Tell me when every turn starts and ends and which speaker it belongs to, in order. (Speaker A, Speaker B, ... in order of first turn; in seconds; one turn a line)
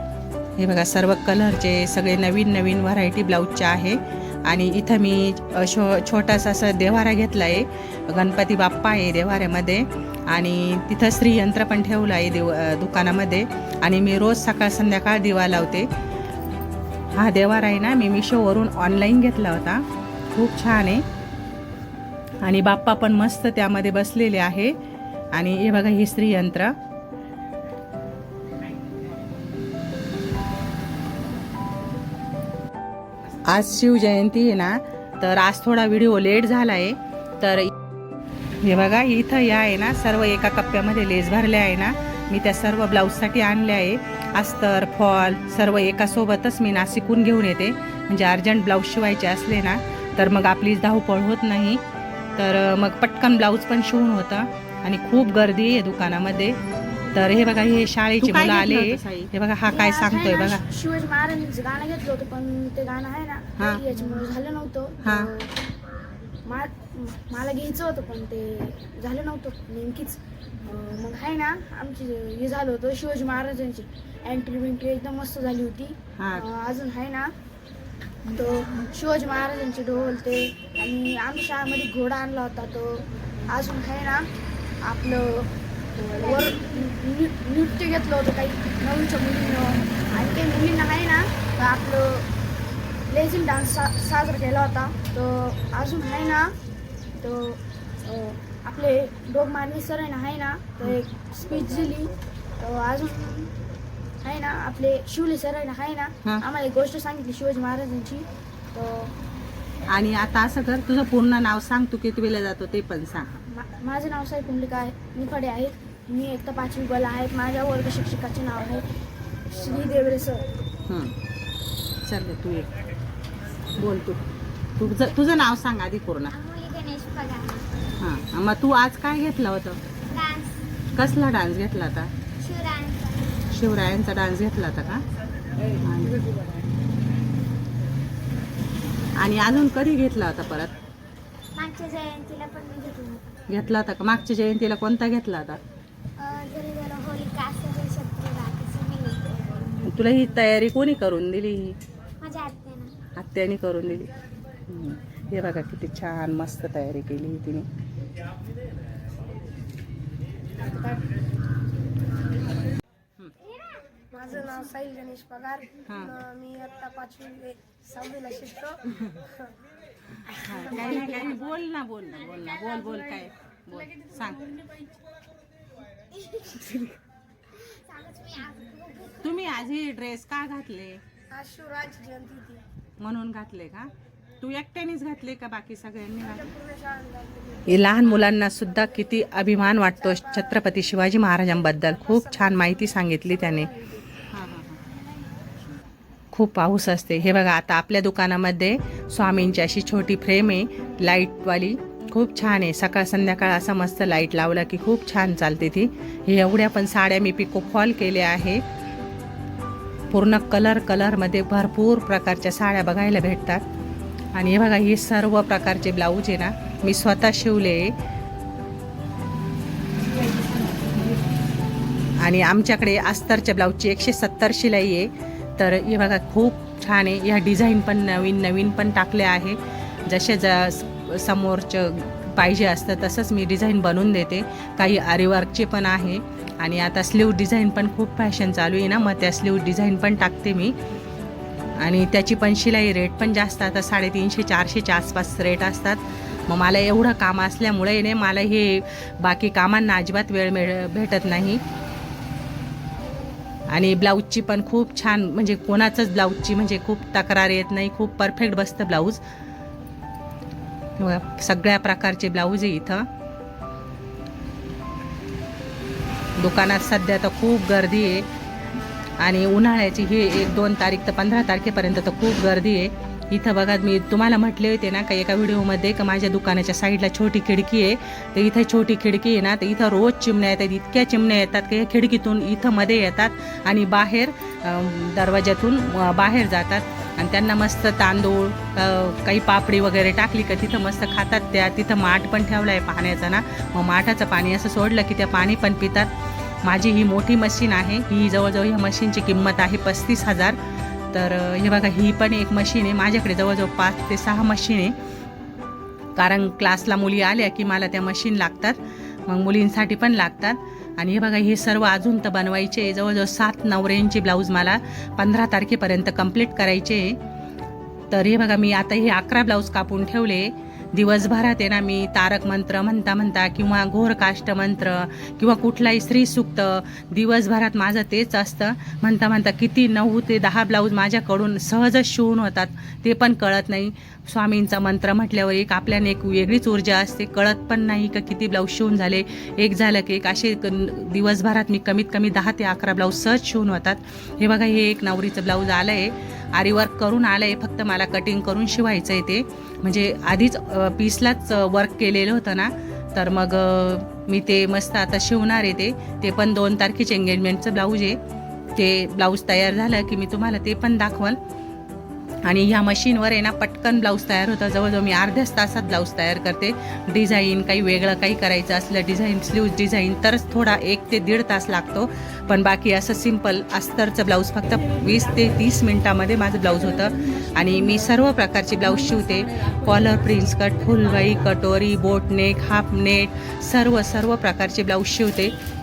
Speaker A: 0.6-15.9
Speaker A: 17.1-21.0
Speaker A: 22.4-24.8
Speaker A: 25.3-26.7
Speaker A: 33.5-37.7
Speaker A: 38.6-51.8
Speaker A: 52.4-56.6
Speaker A: 57.1-60.6
Speaker B: 59.6-65.5
Speaker A: 65.0-65.3
Speaker B: 66.4-77.3
Speaker A: 76.2-76.5
Speaker B: 78.2-84.3
Speaker B: 84.8-92.3
Speaker C: 86.1-86.5
Speaker B: 93.1-96.5
Speaker B: 97.2-103.5
Speaker B: 104.2-109.2
Speaker A: 109.9-113.4
Speaker B: 113.5-118.9
Speaker B: 119.5-120.5
Speaker A: 120.9-121.2
Speaker A: 122.0-122.7
Speaker A: 123.8-124.2
Speaker A: 124.8-126.3
Speaker C: 126.3-127.7
Speaker A: 128.0-129.8
Speaker C: 130.1-130.6
Speaker A: 130.9-132.1
Speaker C: 132.4-133.4
Speaker A: 133.5-135.0
Speaker A: 135.7-136.2
Speaker A: 139.2-140.7
Speaker C: 141.5-143.3
Speaker A: 143.5-145.6
Speaker C: 146.2-149.8
Speaker A: 149.8-151.8
Speaker C: 152.2-152.9
Speaker A: 153.2-154.1
Speaker A: 154.7-157.7
Speaker B: 160.6-161.1
Speaker B: 164.1-168.8
Speaker A: 165.8-166.2
Speaker A: 170.2-174.5
Speaker B: 170.5-170.8
Speaker C: 172.3-172.9
Speaker C: 176.1-176.8
Speaker C: 177.5-179.6
Speaker A: 179.2-181.0
Speaker B: 181.3-182.6
Speaker A: 183.0-186.6
Speaker B: 186.6-187.6
Speaker A: 187.7-194.8
Speaker A: 196.3-208.6
Speaker A: 210.1-213.7
Speaker A: 214.3-217.9
Speaker A: 222.2-240.8
Speaker A: 241.8-251.6
Speaker A: 253.7-259.2
Speaker A: 261.0-263.1
Speaker A: 266.4-268.3
Speaker A: 269.2-296.1
Speaker A: 296.6-300.6
Speaker A: 301.1-305.0
Speaker A: 306.1-317.2
Speaker A: 318.1-358.2
Speaker A: 358.7-361.4
Speaker A: 362.4-385.5